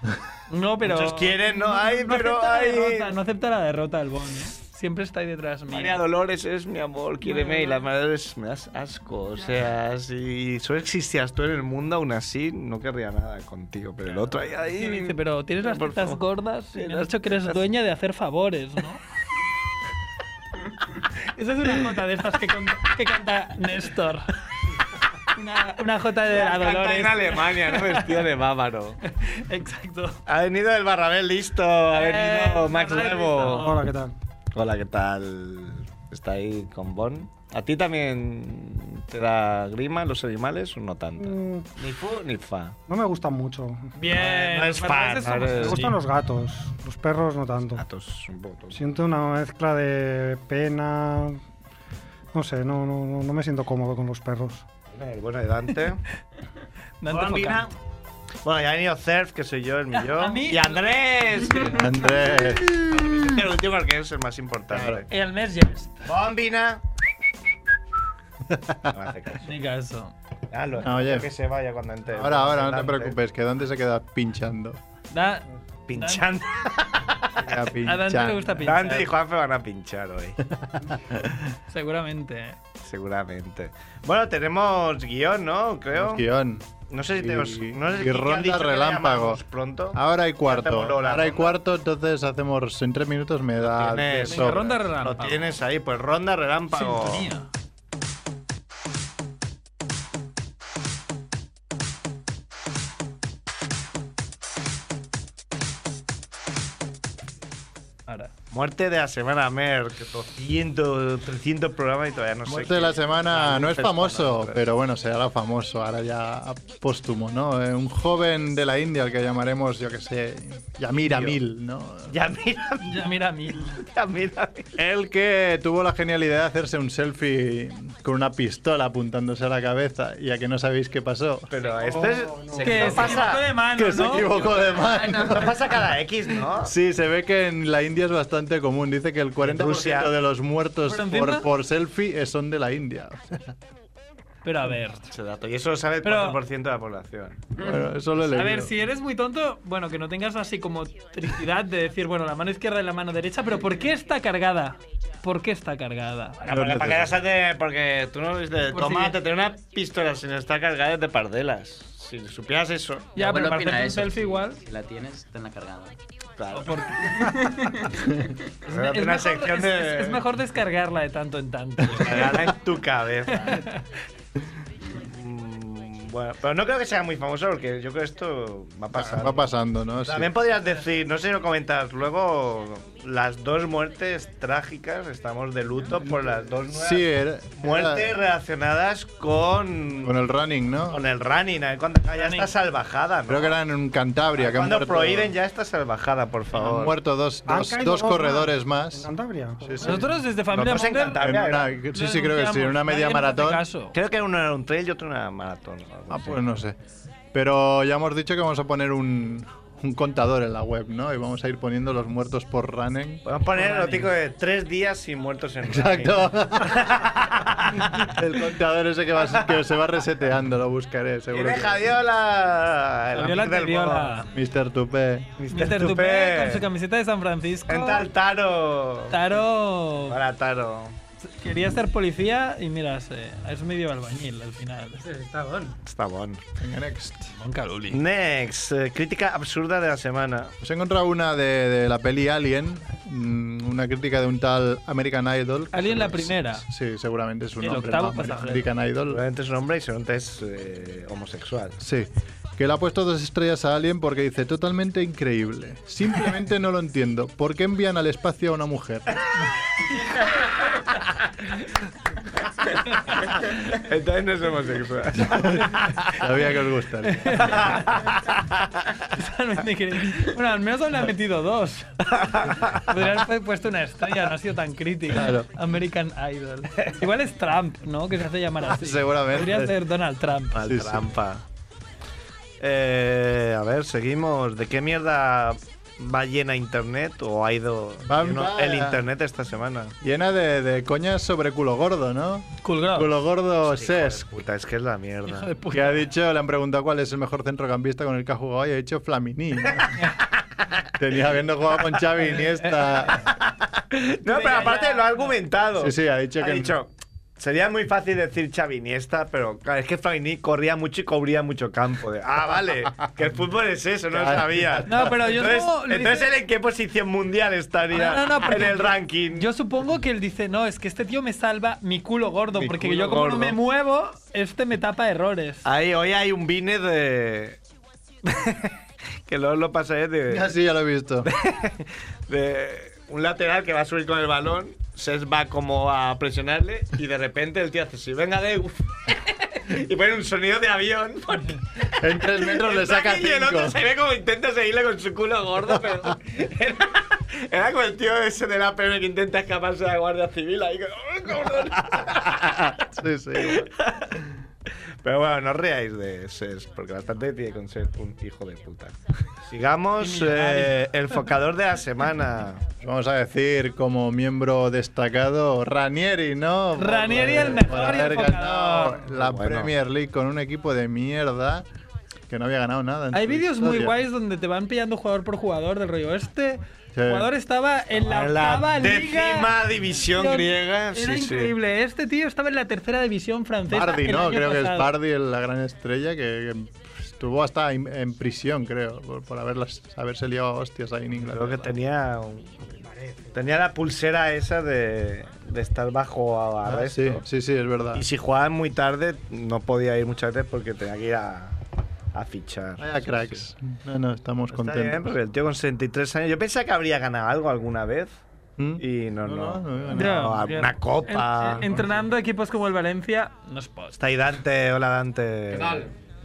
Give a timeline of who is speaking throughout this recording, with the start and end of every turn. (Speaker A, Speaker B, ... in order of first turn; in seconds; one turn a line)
Speaker A: 0.5-6.0
Speaker B: 0.8-3.1
Speaker B: 5.7-16.2
Speaker A: 7.2-7.8
Speaker A: 14.1-19.0
Speaker B: 16.7-17.6
Speaker A: 21.4-24.3
Speaker A: 25.3-28.1
Speaker B: 26.3-29.0
Speaker A: 29.1-30.2
Speaker B: 30.3-33.7
Speaker A: 31.9-33.9
Speaker C: 33.4-34.1
Speaker B: 34.5-42.8
Speaker C: 41.2-41.7
Speaker C: 42.9-43.9
Speaker A: 44.0-46.0
Speaker B: 44.1-45.9
Speaker C: 45.6-47.8
Speaker B: 47.8-48.8
Speaker C: 48.7-51.4
Speaker C: 52.3-54.7
Speaker B: 54.9-56.0
Speaker A: 57.0-57.6
Speaker B: 57.1-57.7
Speaker B: 58.4-61.9
Speaker A: 60.1-60.8
Speaker A: 61.4-61.7
Speaker D: 61.7-62.7
Speaker B: 62.9-65.1
Speaker D: 64.7-65.0
Speaker A: 65.1-66.1
Speaker B: 66.0-66.8
Speaker D: 68.5-68.9
Speaker B: 68.9-69.5
Speaker A: 69.4-70.1
Speaker B: 70.5-73.2
Speaker D: 70.8-71.3
Speaker D: 72.1-74.8
Speaker A: 75.1-76.2
Speaker B: 75.9-77.3
Speaker D: 77.3-78.7
Speaker A: 77.8-79.1
Speaker B: 78.6-80.4
Speaker D: 80.5-81.3
Speaker A: 81.7-82.6
Speaker B: 82.8-86.2
Speaker D: 86.0-89.4
Speaker B: 86.9-91.6
Speaker D: 89.9-94.7
Speaker B: 93.6-97.3
Speaker A: 94.3-95.5
Speaker A: 96.7-97.5
Speaker B: 108.5-114.6
Speaker D: 112.5-122.1
Speaker B: 121.0-121.4
Speaker B: 122.1-123.1
Speaker A: 122.8-123.8
Speaker B: 123.7-124.8
Speaker D: 124.8-131.5
Speaker B: 131.5-133.5
Speaker C: 131.8-132.9
Speaker A: 132.6-134.3
Speaker E: 132.8-133.4
Speaker D: 133.7-135.8
Speaker E: 134.4-135.5
Speaker B: 135.1-136.7
Speaker D: 136.6-143.5
Speaker B: 139.5-140.1
Speaker A: 140.9-141.5
Speaker A: 144.4-145.1
Speaker B: 145.1-147.5
Speaker A: 146.0-146.4
Speaker D: 147.6-148.7
Speaker A: 148.2-156.5
Speaker B: 156.4-163.2
Speaker D: 156.5-157.1
Speaker A: 158.7-159.2
Speaker A: 163.2-164.6
Speaker E: 163.2-166.0
Speaker B: 166.4-166.9
Speaker A: 166.5-167.7
Speaker E: 167.3-167.8
Speaker B: 168.7-170.3
Speaker A: 168.7-172.5
Speaker B: 172.0-173.6
Speaker A: 173.3-173.8
Speaker B: 175.0-190.1
Speaker D: 178.9-180.3
Speaker D: 186.7-188.2
Speaker D: 190.0-191.0
Speaker B: 190.9-193.6
Speaker A: 192.2-192.5
Speaker D: 193.3-195.3
Speaker B: 194.4-197.0
Speaker D: 196.6-199.1
Speaker C: 197.5-200.2
Speaker D: 199.6-200.0
Speaker A: 199.8-201.3
Speaker B: 200.5-201.7
Speaker D: 201.2-203.7
Speaker A: 201.9-203.9
Speaker B: 203.9-206.5
Speaker D: 206.1-206.8
Speaker D: 207.3-213.3
Speaker B: 213.3-218.1
Speaker A: 213.5-214.1
Speaker D: 215.7-217.1
Speaker D: 217.8-221.9
Speaker B: 221.3-224.2
Speaker A: 223.2-224.3
Speaker D: 224.3-225.4
Speaker B: 225.4-226.7
Speaker A: 225.5-228.1
Speaker B: 227.7-229.3
Speaker A: 229.1-230.2
Speaker B: 230.1-231.0
Speaker A: 231.2-235.1
Speaker B: 235.8-236.4
Speaker D: 236.6-237.3
Speaker A: 237.3-238.0
Speaker B: 237.9-240.5
Speaker D: 240.6-249.2
Speaker A: 245.7-246.6
Speaker A: 247.6-248.6
Speaker B: 249.1-251.8
Speaker D: 251.8-259.1
Speaker B: 263.7-265.9
Speaker D: 265.2-267.6
Speaker A: 265.6-266.1
Speaker A: 267.1-268.1
Speaker B: 267.4-268.9
Speaker A: 269.1-280.6
Speaker B: 272.1-272.8
Speaker D: 275.1-275.5
Speaker D: 278.6-279.8
Speaker B: 280.6-281.4
Speaker D: 280.6-281.1
Speaker B: 282.6-289.9
Speaker D: 288.1-289.0
Speaker D: 290.0-294.2
Speaker A: 292.6-293.1
Speaker B: 293.6-295.6
Speaker A: 295.3-296.1
Speaker D: 295.7-299.9
Speaker D: 301.0-303.3
Speaker B: 303.2-319.5
Speaker A: 304.2-305.3
Speaker D: 305.8-306.7
Speaker D: 314.1-315.2
Speaker A: 314.9-316.3
Speaker A: 317.9-325.6
Speaker B: 322.6-323.6
Speaker B: 325.6-327.6
Speaker B: 328.2-328.7
Speaker B: 329.3-330.5
Speaker D: 330.3-331.3
Speaker B: 331.3-352.7
Speaker D: 342.0-343.8
Speaker D: 352.4-353.7
Speaker B: 353.4-354.2
Speaker B: 355.0-362.7
Speaker A: 360.0-360.8
Speaker D: 362.8-371.7
Speaker A: 366.8-369.1
Speaker B: 369.1-369.7
Speaker D: 372.3-373.9
Speaker A: 373.1-379.5
Speaker D: 376.9-377.3
Speaker B: 378.0-381.5
Speaker A: 380.1-384.9
Speaker D: 383.7-391.7
Speaker B: 391.2-392.8
Speaker B: 393.3-397.2
Speaker D: 396.6-398.1
Speaker B: 397.9-401.6
Speaker B: 402.1-403.4
Speaker D: 402.8-405.1
Speaker B: 404.5-408.2
Speaker D: 408.6-410.3
Speaker B: 408.8-411.7
Speaker A: 409.9-414.0
Speaker B: 414.0-415.9